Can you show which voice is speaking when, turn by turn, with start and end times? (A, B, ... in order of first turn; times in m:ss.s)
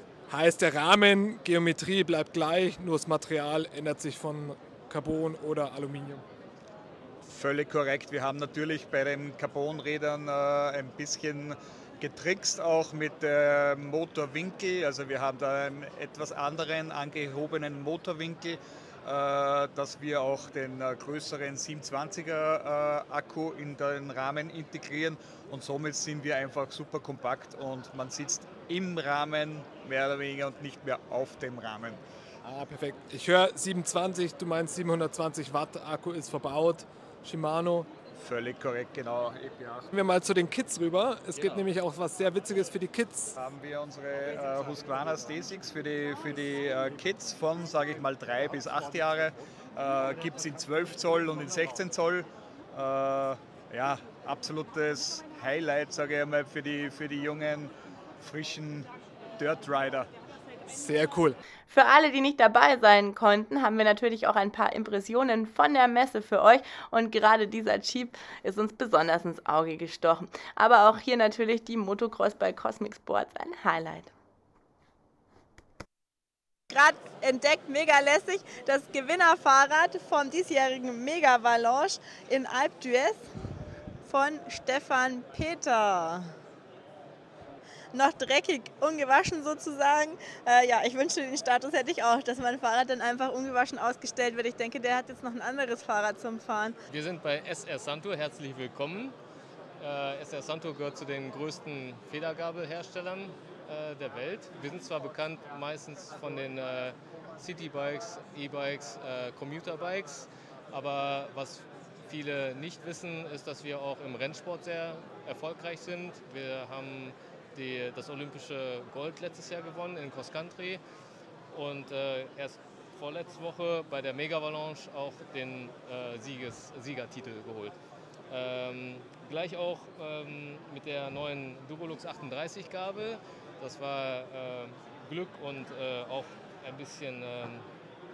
0:00.3-0:06.2 A
0:07.2-0:32.0 B
0:32.4-0:37.9 A
0:38.2-0:39.9 B
0:39.9-0:43.4 A
0:43.4-1:00.1 B
1:00.7-1:01.4 A
1:01.7-1:14.1 C
1:16.7-1:23.2 D
1:24.0-1:26.3 D
1:27.9-1:36.8 D
1:36.9-1:39.2 E
1:39.8-2:00.8 E
2:01.5-2:07.8 E
2:08.3-2:17.7 E